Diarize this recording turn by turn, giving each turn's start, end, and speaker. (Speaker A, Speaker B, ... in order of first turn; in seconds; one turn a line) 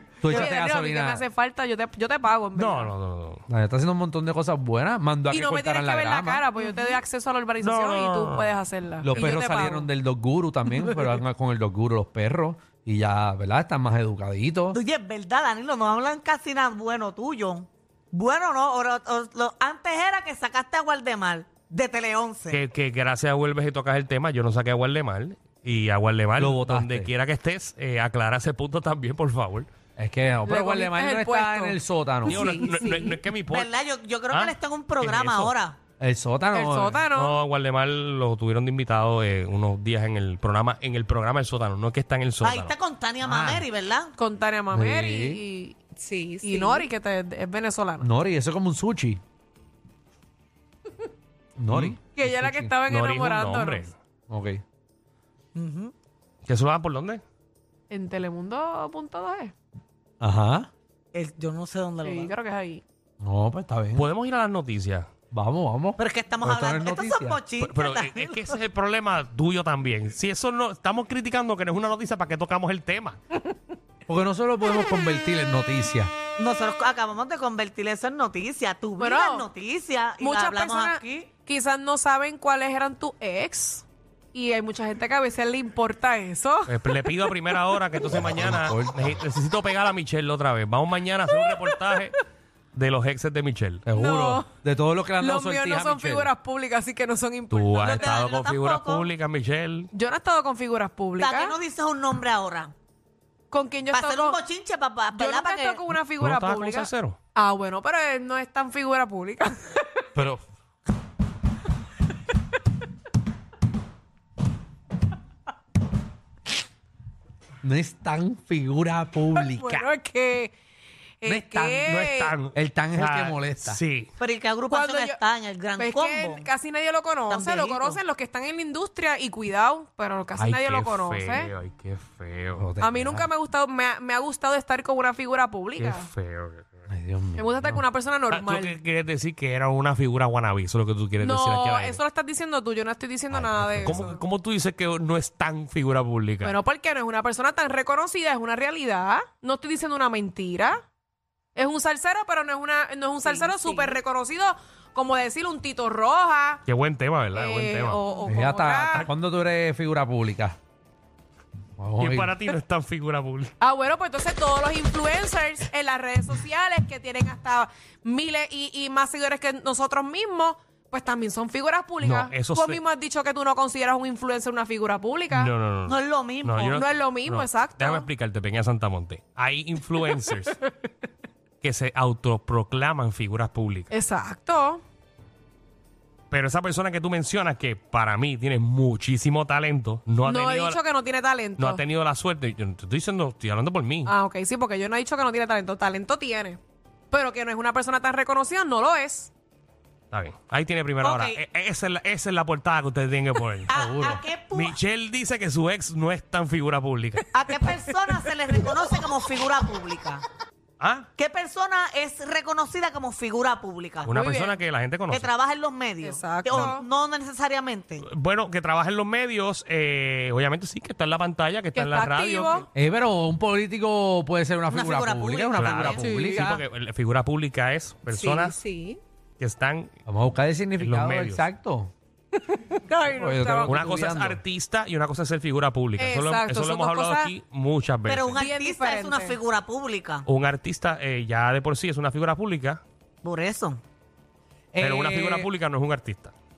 Speaker A: 0.2-1.2
Speaker B: 0.3-2.9
Speaker C: 2.6-3.4
Speaker A: 3.5-6.5
Speaker B: 5.3-9.9
Speaker D: 6.6-7.0
Speaker C: 7.6-8.6
Speaker A: 9.0-14.8
Speaker B: 10.7-11.1
Speaker D: 14.7-22.6
Speaker C: 22.5-29.7
Speaker A: 26.4-27.1
Speaker A: 30.0-32.9
Speaker B: 30.5-33.2
Speaker C: 32.3-33.7
Speaker D: 33.5-35.8
Speaker C: 34.3-35.5
Speaker A: 36.0-37.0
Speaker B: 36.5-37.4
Speaker C: 37.1-42.7
Speaker D: 42.4-44.1
Speaker A: 43.2-43.6
Speaker B: 44.2-48.1
Speaker A: 44.7-45.4
Speaker D: 46.0-46.9
Speaker A: 48.0-49.2
Speaker A: 51.6-52.8
Speaker C: 51.7-52.0
Speaker B: 52.1-53.9
Speaker C: 52.9-54.0
Speaker A: 54.3-54.6
Speaker D: 55.5-55.9
Speaker C: 56.5-57.2
Speaker B: 57.9-59.5
Speaker A: 60.2-60.7
Speaker D: 61.1-62.3
Speaker B: 62.0-62.8
Speaker A: 63.2-64.1
Speaker C: 64.0-65.1
Speaker A: 65.3-67.4
Speaker D: 66.0-68.6
Speaker C: 67.6-73.2
Speaker A: 74.1-76.1
Speaker D: 76.4-81.3
Speaker B: 79.0-79.5
Speaker B: 80.2-86.8
Speaker C: 86.7-92.2
Speaker A: 88.1-89.2
Speaker C: 92.7-93.8
Speaker A: 93.9-96.3
Speaker B: 93.9-94.5
Speaker B: 95.2-98.1
Speaker C: 97.5-99.9
Speaker D: 97.8-99.1
Speaker B: 99.9-101.5
Speaker D: 101.2-102.7
Speaker B: 103.5-104.4
Speaker D: 103.9-105.8
Speaker B: 105.1-110.1
Speaker C: 106.0-107.2
Speaker A: 110.2-110.4
Speaker A: 117.6-119.9
Speaker B: 119.3-120.5
Speaker B: 121.2-122.3
Speaker A: 121.2-121.9
Speaker C: 121.8-124.1
Speaker A: 122.5-123.8
Speaker D: 124.2-126.5
Speaker B: 124.7-125.2
Speaker B: 125.8-131.5
Speaker D: 127.3-128.0
Speaker C: 130.4-132.7
Speaker A: 132.6-133.3
Speaker B: 132.8-136.1
Speaker C: 135.8-136.7
Speaker A: 136.9-137.8
Speaker B: 137.4-138.8
Speaker C: 138.3-142.0
Speaker B: 141.2-144.1
Speaker A: 143.3-144.2
Speaker C: 143.8-146.5
Speaker B: 146.4-150.8
Speaker B: 151.6-156.6
Speaker D: 153.2-154.0
Speaker C: 156.7-158.0
Speaker B: 157.3-159.1
Speaker A: 158.3-160.6
Speaker A: 161.8-162.4
Speaker C: 162.0-163.6
Speaker B: 163.6-175.5
Speaker C: 172.0-172.8
Speaker C: 175.3-180.6
Speaker D: 175.9-176.8
Speaker B: 176.7-178.1
Speaker C: 181.6-183.9
Speaker B: 183.9-184.8
Speaker C: 186.3-190.8
Speaker B: 190.2-191.8
Speaker C: 191.6-194.1
Speaker B: 194.1-196.6
Speaker B: 197.1-199.3
Speaker C: 200.1-203.7
Speaker D: 201.0-201.4
Speaker D: 203.7-204.8
Speaker A: 203.7-204.2
Speaker C: 204.5-207.3
Speaker D: 207.3-210.2
Speaker C: 210.8-211.1
Speaker D: 211.2-214.2
Speaker C: 214.1-215.3
Speaker B: 214.1-214.6
Speaker D: 215.1-218.1
Speaker B: 216.0-216.8
Speaker C: 218.0-222.7
Speaker B: 221.7-222.7
Speaker A: 222.8-226.6
Speaker D: 224.7-226.0
Speaker C: 225.6-228.6
Speaker B: 226.0-226.5
Speaker B: 228.1-229.0
Speaker C: 229.4-229.9
Speaker A: 230.1-231.9
Speaker C: 230.8-231.5
Speaker B: 232.4-233.8
Speaker A: 233.2-234.4
Speaker C: 233.7-238.4
Speaker B: 236.0-237.3
Speaker D: 238.1-240.2
Speaker B: 238.3-239.4
Speaker C: 240.3-242.8
Speaker D: 243.2-243.8
Speaker A: 244.7-245.5
Speaker C: 244.8-246.3